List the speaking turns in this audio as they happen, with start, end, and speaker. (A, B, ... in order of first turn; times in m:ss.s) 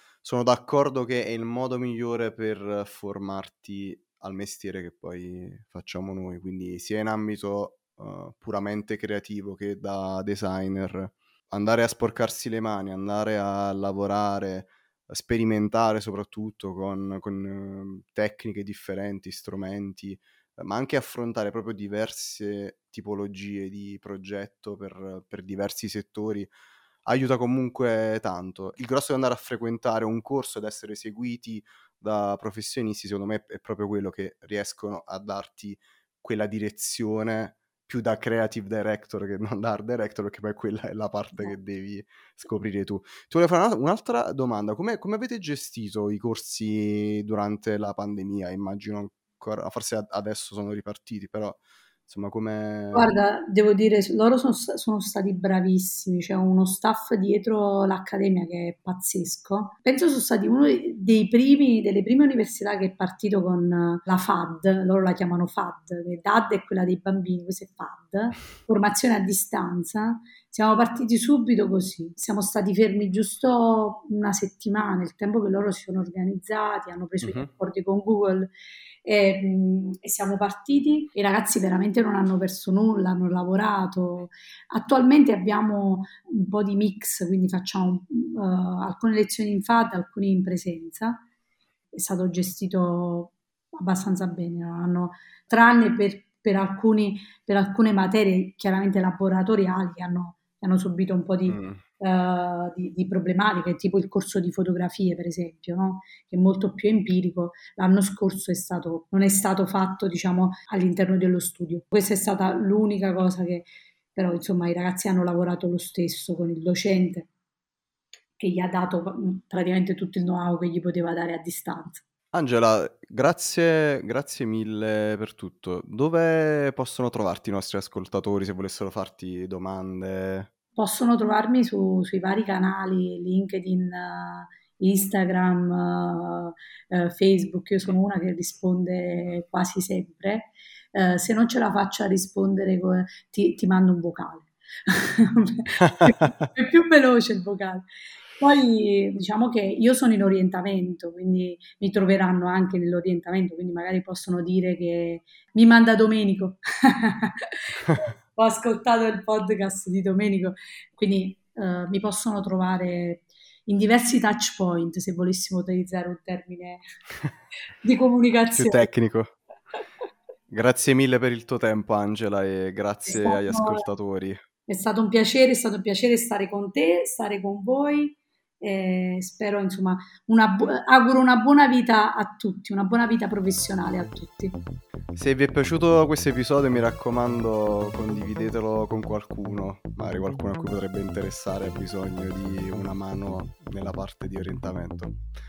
0:00.2-0:26.5 A
0:27.0-0:53.1 A
0:52.9-1:18.5 B
1:17.2-1:17.5 A
1:19.0-1:31.2 B
1:31.9-1:57.3 B
1:41.5-1:41.8 A
1:58.4-2:02.0 B
2:02.3-2:10.5 A
2:10.8-2:27.8 B
2:25.8-2:26.5 A
2:28.4-2:46.8 B
2:47.8-2:48.9 B
2:48.6-2:49.3 A
2:50.5-2:54.4 A
2:53.0-2:53.9 B
2:54.7-3:04.6 B
3:05.1-3:15.2 A